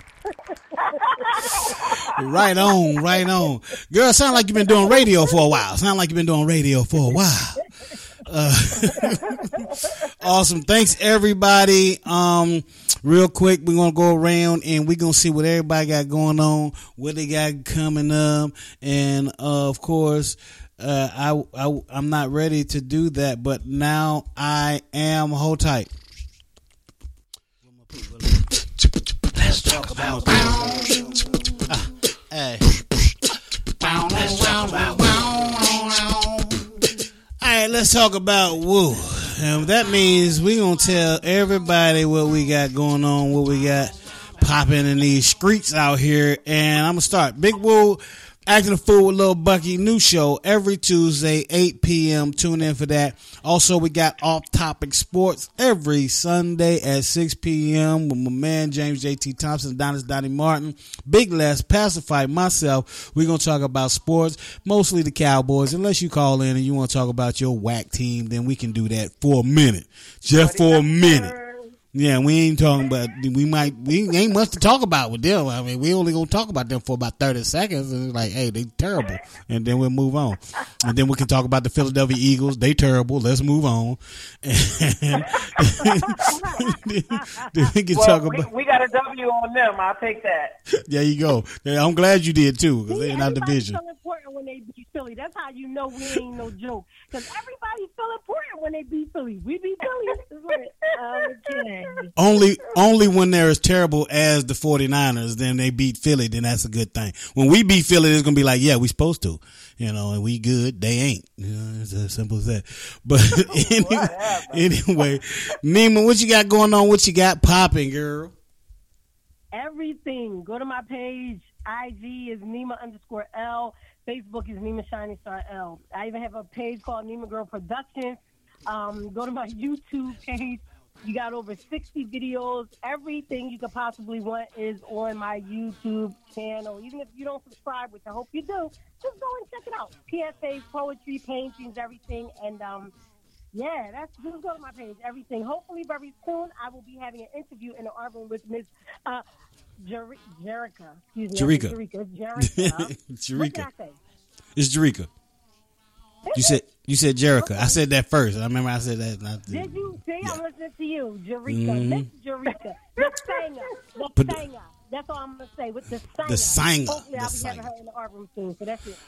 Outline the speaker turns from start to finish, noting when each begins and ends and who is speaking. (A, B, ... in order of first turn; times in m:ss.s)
0:00.5-0:01.8 A
0:01.2-0:02.1 B
0:02.2-0:07.6 C
0:02.6-0:03.2 A
0:08.2-0:09.6 C
0:10.2-0:25.9 C
0:27.9-0:33.1 C
0:33.7-0:36.9 C
0:37.4-1:11.3 C
1:10.3-1:11.7 B
1:11.9-1:28.5 C
1:25.8-1:27.5 A
1:27.9-1:30.6 B
1:30.8-1:33.8 C
1:32.9-1:42.0 A
1:41.2-1:42.1 B
1:42.2-1:58.3 C
1:53.4-1:54.8 B
1:59.5-2:22.9 A
2:23.5-2:29.2 A
2:29.8-2:34.0 A
2:31.3-2:31.8 C
2:32.4-2:33.7 C
2:34.6-2:35.1 C
2:36.2-2:36.6 A
2:36.3-2:40.4 C
2:37.4-2:37.8 A
2:39.5-2:49.0 A
2:41.4-2:42.1 C
2:43.0-2:43.8 B
2:44.2-2:44.4 C
2:46.2-2:47.7 C